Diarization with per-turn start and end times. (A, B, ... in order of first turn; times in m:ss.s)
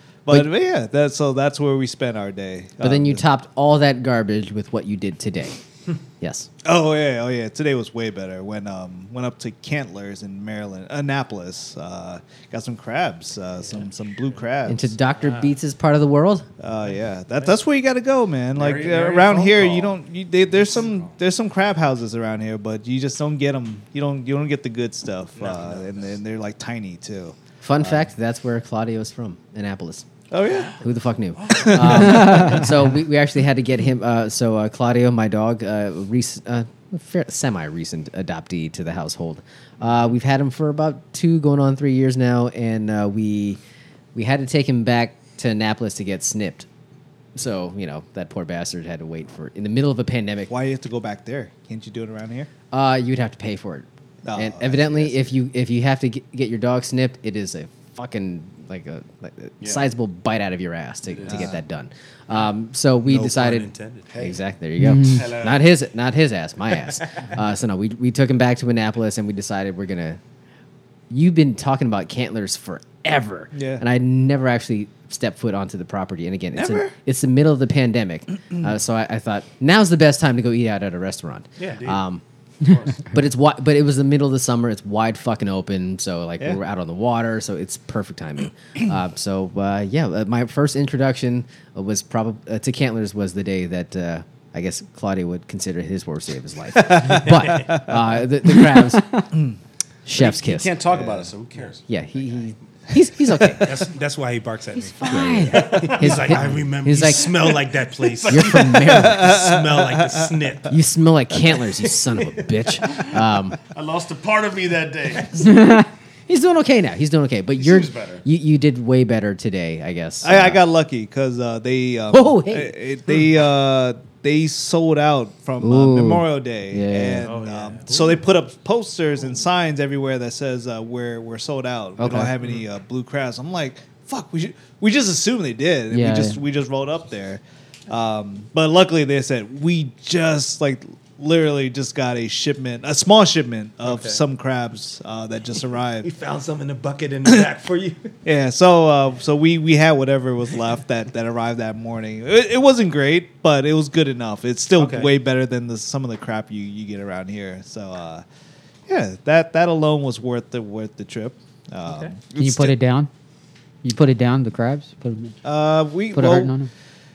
0:00.2-0:03.2 A
0:02.8-0:05.6 B
0:06.2-0:06.5 B
0:06.6-0:14.9 A
0:13.6-0:14.4 C
0:14.7-0:16.5 B
0:15.2-0:15.5 C
0:16.6-0:28.0 A
0:16.9-0:17.6 C
0:18.5-0:20.0 D
0:20.5-0:21.1 D
0:25.4-0:26.2 D
0:27.6-0:30.1 B
0:30.3-0:30.7 A
0:30.8-0:43.6 B
0:31.6-0:32.5 A
0:44.2-0:46.7 B
0:47.4-0:50.5 B
0:50.5-0:52.5 A
0:52.7-1:10.2 B
0:54.2-0:55.3 A
0:59.6-0:59.9 D
1:01.1-1:01.6 D
1:01.3-1:01.6 A
1:03.0-1:04.1 C
1:04.1-1:04.4 D
1:04.8-1:05.3 E
1:05.0-1:05.7 D
1:11.1-1:22.2 B
1:13.5-1:13.8 A
1:16.6-1:16.9 A
1:21.6-1:21.9 C
1:21.6-1:22.0 D
1:22.6-1:23.1 D
1:23.1-1:39.1 B
1:36.8-1:38.0 A
1:37.0-1:37.7 C
1:38.6-1:39.2 E
1:40.1-1:40.8 B
1:40.1-1:41.8 D
1:40.9-1:41.2 A
1:41.9-1:43.9 B
1:43.6-1:50.8 C
1:45.0-1:47.6 B
1:45.0-1:46.4 E
1:48.0-1:48.8 D
1:48.3-1:49.4 B
1:48.8-1:50.2 A
1:50.7-1:53.6 B
1:51.6-1:52.5 C
1:53.7-1:55.4 D
1:55.4-1:55.9 E
1:56.3-2:00.6 B
1:57.6-1:58.2 D
2:00.2-2:26.1 A
2:02.1-2:02.8 B
2:05.6-2:07.3 E
2:07.2-2:08.3 C
2:12.0-2:12.3 E
2:15.9-2:16.4 E
2:23.8-2:24.2 C
2:26.0-2:28.1 C
2:28.2-2:38.2 A
2:34.8-2:35.1 C
2:38.9-2:42.8 A
2:41.8-2:42.2 C
2:42.3-2:43.1 E
2:43.8-2:45.4 E
2:45.4-2:46.5 A
2:46.1-2:46.7 E